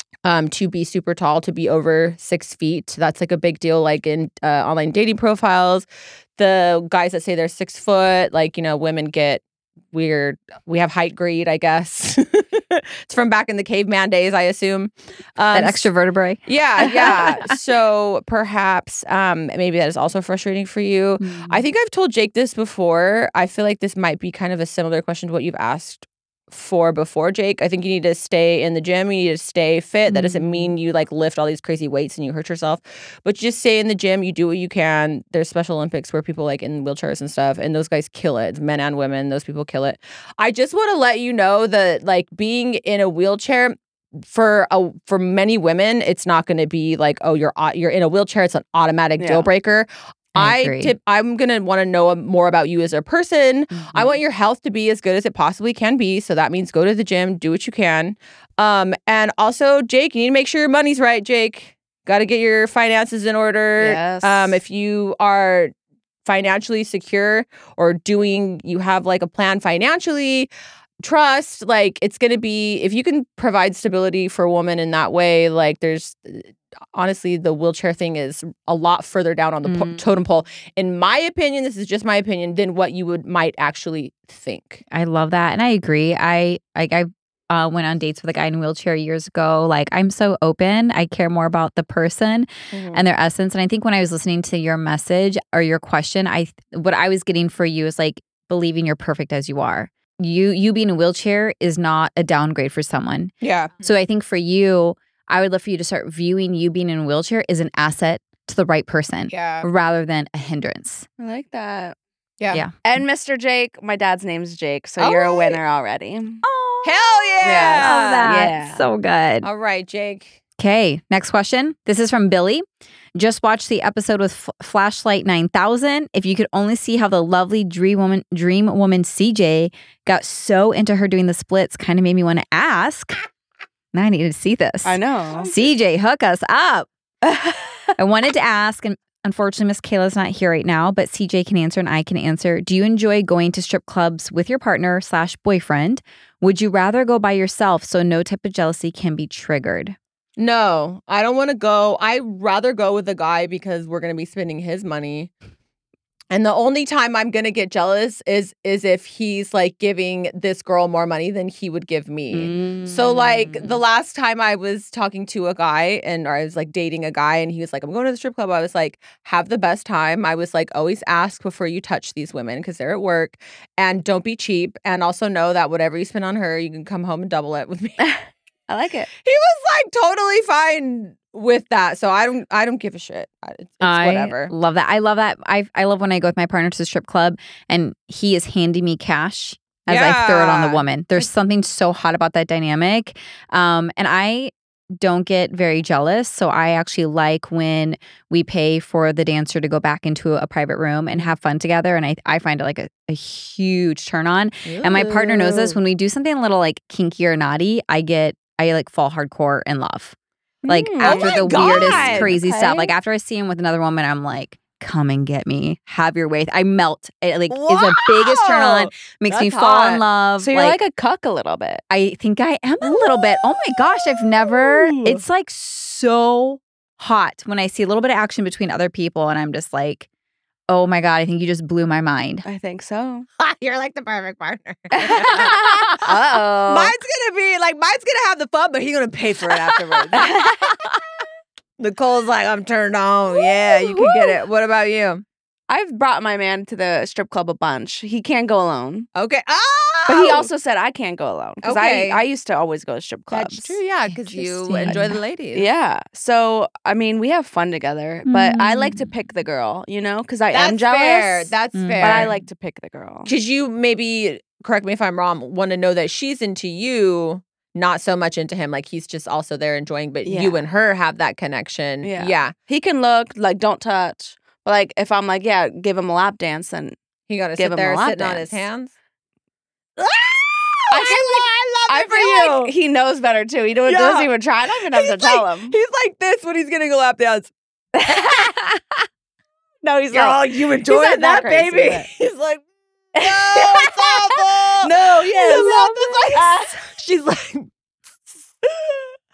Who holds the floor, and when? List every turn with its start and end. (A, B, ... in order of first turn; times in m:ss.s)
0:00.2-0:05.8 A
0:06.4-0:15.9 A
0:15.5-0:17.6 B
0:16.5-1:05.7 A
0:21.2-0:21.7 B
0:30.1-0:30.7 B
0:49.2-0:49.5 C
0:50.4-0:50.9 B
0:53.8-0:54.1 C
1:03.8-1:04.6 C
1:06.2-1:10.5 A
1:11.0-1:24.8 A
1:19.6-1:20.0 B
1:24.9-1:51.1 B
1:32.7-1:33.1 A
1:43.4-1:43.8 A
1:49.3-1:49.7 A
1:51.2-1:52.0 C
1:52.5-1:52.8 B
1:52.8-1:56.4 C
1:55.0-1:55.5 A
1:56.4-1:59.5 B
1:56.8-1:58.3 A
1:57.4-1:58.8 C
1:59.4-2:00.4 A
2:00.6-2:13.2 B
2:13.9-2:16.9 B
2:14.8-2:15.5 C
2:17.2-2:18.0 C
2:18.0-2:30.0 B
2:30.4-2:35.3 A
2:36.3-2:58.1 A
2:42.3-2:43.8 B
2:58.0-2:59.1 C
2:59.2-3:04.5 A
3:03.8-3:30.1 B
3:09.9-3:10.8 A
3:24.6-3:25.8 A
3:30.6-3:32.9 C
3:30.7-3:40.8 B
3:31.0-3:32.4 A
3:37.5-3:40.0 A
3:40.4-3:41.8 C
3:41.9-3:50.1 B
3:42.8-3:45.2 C
3:50.7-3:52.4 B
3:52.4-3:53.3 C
3:53.4-3:56.0 A
3:54.9-3:57.0 C
3:56.7-4:00.7 A
4:00.1-4:00.7 C
4:01.8-4:05.2 A
4:03.4-4:04.4 C
4:05.7-4:09.1 C
4:09.1-4:10.5 A
4:10.1-4:13.8 C
4:11.6-4:12.2 A
4:13.3-4:15.7 A
4:14.1-4:15.2 B
4:14.8-4:23.3 C
4:18.3-4:19.1 B
4:20.5-4:22.3 A
4:21.8-4:22.3 B
4:23.3-4:32.5 A
4:30.2-4:30.6 C
4:32.0-4:37.0 C
4:37.3-4:38.9 A
4:37.6-4:38.6 C
4:40.0-4:42.7 A
4:40.9-4:45.7 C
4:43.9-4:47.5 A
4:47.9-4:48.6 C
4:49.8-4:52.1 C
4:50.1-4:57.7 A
4:53.1-4:56.8 C
4:58.6-4:59.1 A